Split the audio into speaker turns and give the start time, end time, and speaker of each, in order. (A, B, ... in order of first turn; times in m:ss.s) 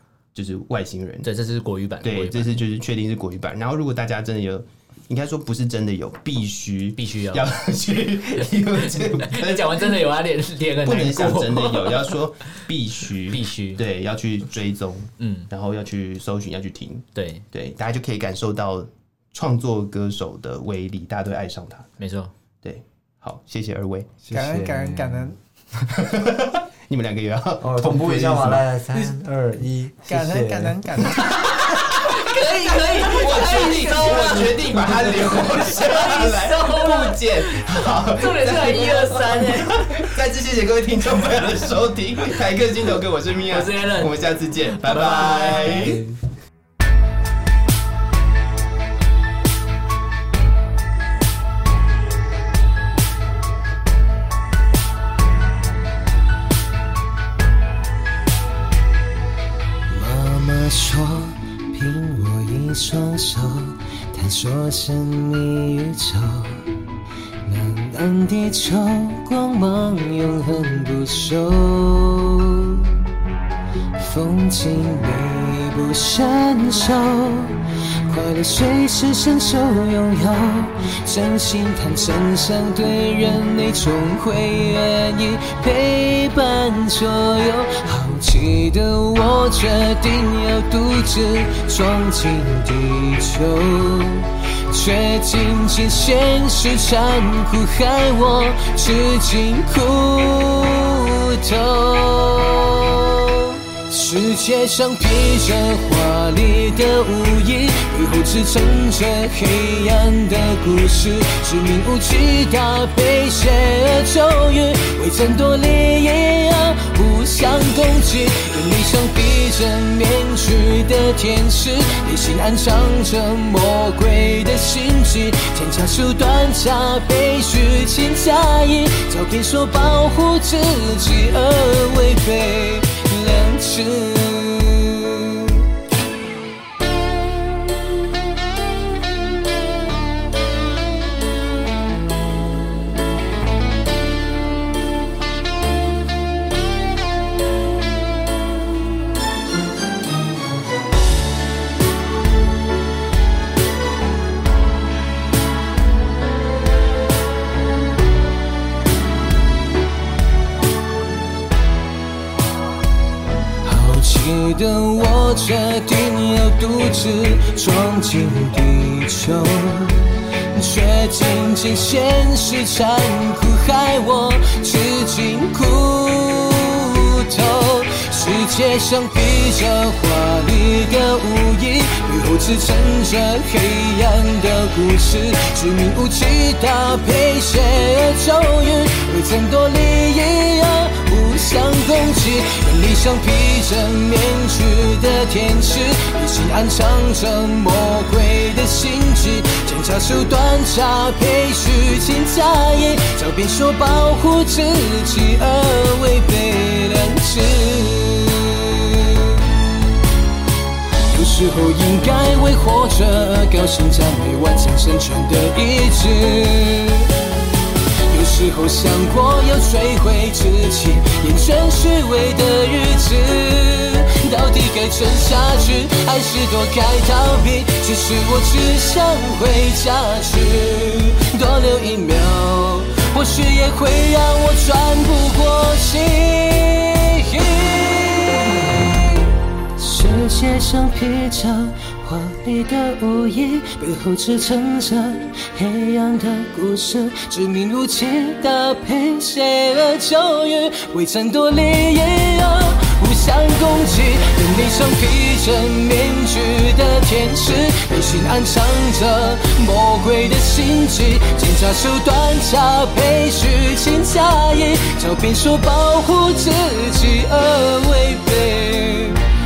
0:00.3-0:01.3 A
0:01.2-0:02.6 B
0:02.0-0:10.0 A
0:07.0-0:07.5 B
0:08.4-0:12.2 B
0:10.8-0:21.9 A
0:13.3-0:13.8 B
0:15.2-0:15.5 B
0:17.1-0:17.4 B
0:22.0-0:22.3 B
0:22.6-0:24.1 A
0:24.2-0:25.3 C
0:24.3-0:25.4 D
0:25.8-0:28.6 A
0:27.6-0:30.8 C
0:30.0-0:33.8 D
0:31.2-0:40.1 B
0:32.9-0:46.1 A
0:43.5-0:44.2 B
0:44.7-0:46.0 B
0:59.9-1:06.8 E
1:07.4-1:12.9 E
1:14.0-2:15.6 E
2:43.6-3:29.3 E
3:31.1-3:37.1 E
3:38.1-4:29.2 E